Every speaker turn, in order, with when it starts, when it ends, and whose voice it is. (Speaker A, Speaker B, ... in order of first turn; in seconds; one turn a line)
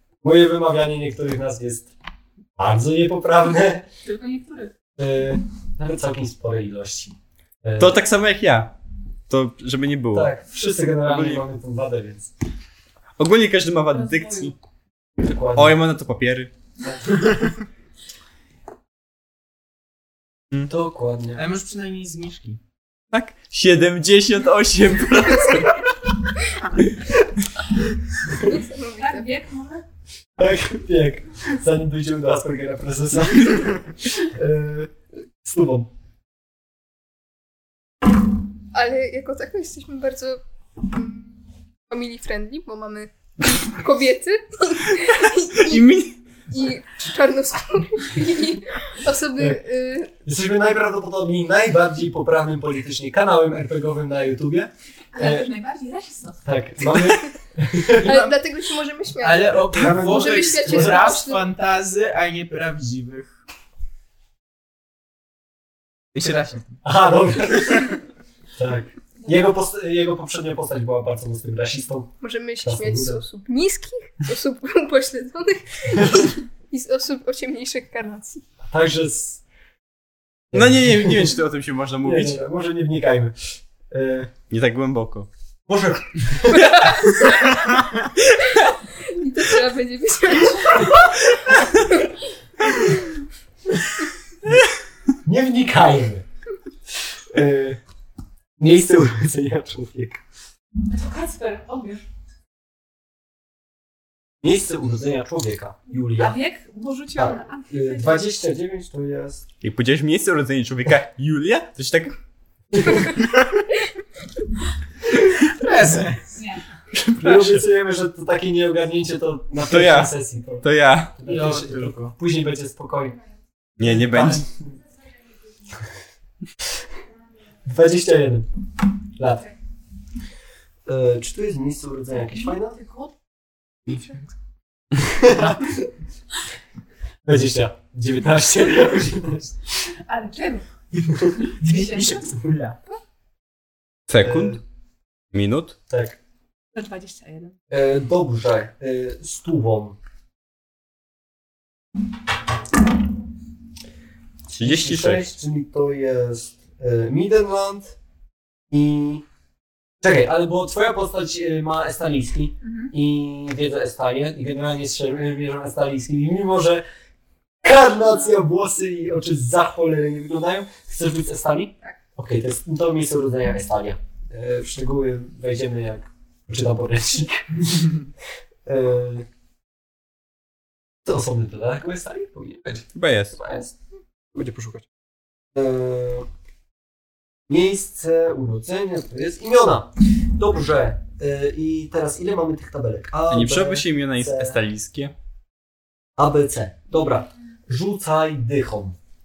Speaker A: 0.2-1.9
Speaker A: 2.5-3.9
Speaker B: 4.0-4.7
Speaker A: 5.0-8.0
Speaker C: 7.8-8.7
Speaker C: 9.3-10.3
Speaker A: 10.1-12.3
Speaker C: 11.0-11.4
Speaker C: 13.2-14.5
Speaker B: 13.9-14.5
Speaker A: 15.2-15.8
Speaker C: 15.6-16.5
Speaker A: 20.6-21.4
Speaker D: 21.3-22.6
Speaker C: 23.1-25.9
Speaker E: 28.4-29.3
Speaker B: 28.9-29.8
Speaker A: 30.4-35.9
Speaker E: 38.7-46.0
Speaker C: 45.5-46.2
Speaker E: 46.5-50.1
Speaker A: 50.2-55.5
Speaker B: 55.1-56.4
Speaker A: 56.4-58.1
Speaker D: 57.9-58.4
Speaker E: 58.0-61.5
Speaker D: 59.2-63.4
Speaker A: 59.7-61.1
Speaker D: 66.1-66.8
Speaker A: 66.8-68.0
Speaker A: 68.5-72.1
Speaker E: 72.2-78.4
Speaker A: 72.6-73.2
Speaker A: 78.7-79.4
Speaker A: 80.5-81.3
Speaker C: 80.5-82.4
Speaker A: 82.0-84.3
Speaker C: 84.5-85.3
Speaker A: 85.7-87.3
Speaker E: 86.5-87.6
Speaker E: 88.5-92.1
Speaker A: 95.2-96.2
Speaker A: 97.3-97.8
Speaker A: 98.6-100.2
Speaker B: 100.8-102.0
Speaker A: 104.4-106.4
Speaker B: 106.2-108.2
Speaker A: 107.1-109.4
Speaker C: 109.6-112.2
Speaker A: 112.7-113.1
Speaker D: 115.5-116.2
Speaker B: 116.4-116.6
Speaker C: 116.9-117.6
Speaker A: 117.2-120.6
Speaker C: 119.7-121.2
Speaker A: 121.2-123.2
Speaker D: 121.2-122.1
Speaker C: 123.8-124.5
Speaker A: 123.8-124.5
Speaker A: 127.7-128.5
Speaker A: 129.2-129.5
Speaker A: 130.8-132.8
Speaker B: 132.3-133.1
Speaker D: 133.9-134.3
Speaker A: 135.0-135.9
Speaker A: 137.2-139.6
Speaker B: 140.1-140.6
Speaker A: 141.1-141.4
Speaker D: 141.5-142.8
Speaker B: 141.7-142.2
Speaker C: 144.1-144.6
Speaker A: 144.2-144.6
Speaker C: 145.3-145.8
Speaker A: 145.9-146.2
Speaker B: 146.7-147.5
Speaker A: 147.7-150.0
Speaker A: 154.5-157.9
Speaker C: 154.6-155.2
Speaker A: 158.7-159.2
Speaker A: 160.0-166.8
Speaker B: 162.6-162.9
Speaker A: 167.6-178.0
Speaker A: 178.7-179.3
Speaker A: 181.0-183.7
Speaker C: 182.9-183.4
Speaker A: 184.3-184.8
Speaker A: 185.5-186.3
Speaker A: 187.5-194.6
Speaker C: 193.3-195.1
Speaker A: 196.2-199.0